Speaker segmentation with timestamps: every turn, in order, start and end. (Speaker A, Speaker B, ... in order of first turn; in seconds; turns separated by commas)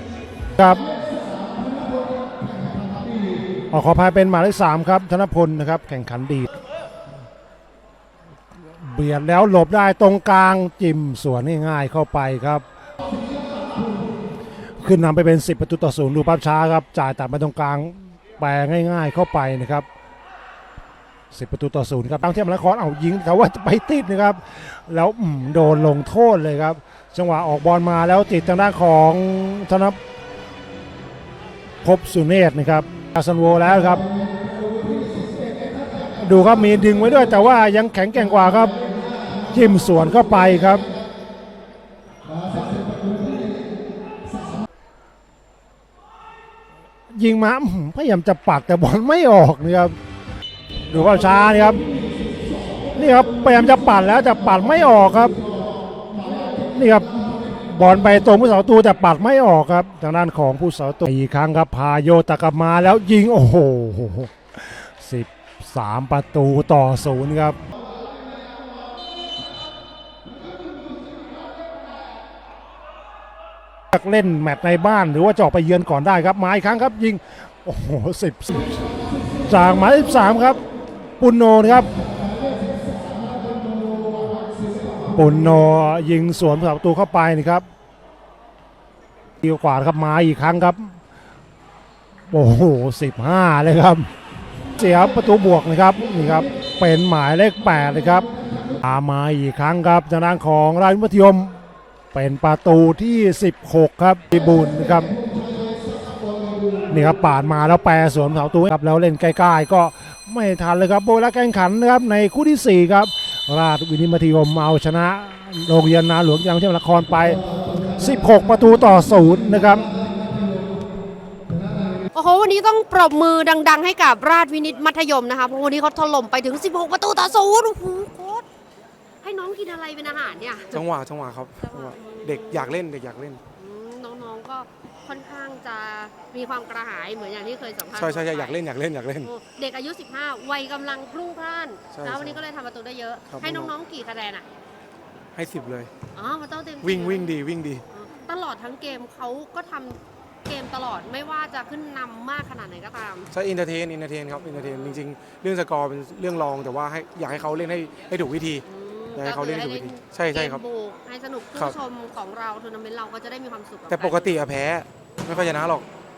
Speaker A: 0.5-0.9, Speaker A: 3.7-6.5, Speaker A: 8.8-12.6, Speaker A: 14.8-19.9, Speaker A: 21.3-30.0, Speaker A: 31.8-34.0, Speaker A: 36.2-38.9, Speaker A: 39.5-40.9, Speaker A: 47.1-49.9, Speaker A: 50.9-51.8, Speaker A: 52.9-55.4, Speaker A: 56.7-67.6, Speaker A: 73.9-78.8, Speaker A: 79.5-80.6, Speaker A: 81.2-81.9, Speaker A: 85.1-87.6, Speaker A: 89.4-90.9, Speaker A: 92.3-94.1, Speaker A: 94.8-98.3, Speaker A: 98.8-101.6, Speaker A: 102.1-105.2, Speaker A: 106.9-117.4, Speaker A: 118.0-119.9, Speaker B: 122.1-128.4, Speaker B: 129.2-130.8, Speaker C: 130.7-133.4, Speaker B: 131.6-132.7, Speaker B: 133.6-138.6, Speaker C: 137.9-139.3, Speaker B: 139.2-144.4, Speaker C: 141.9-142.4, Speaker C: 143.3-143.7, Speaker C: 145.3-145.9, Speaker B: 146.1-147.3, Speaker C: 146.8-147.8, Speaker B: 147.9-153.3, Speaker C: 153.3-160.6, Speaker B: 154.6-155.0, Speaker B: 158.7-164.4, Speaker C: 163.9-165.8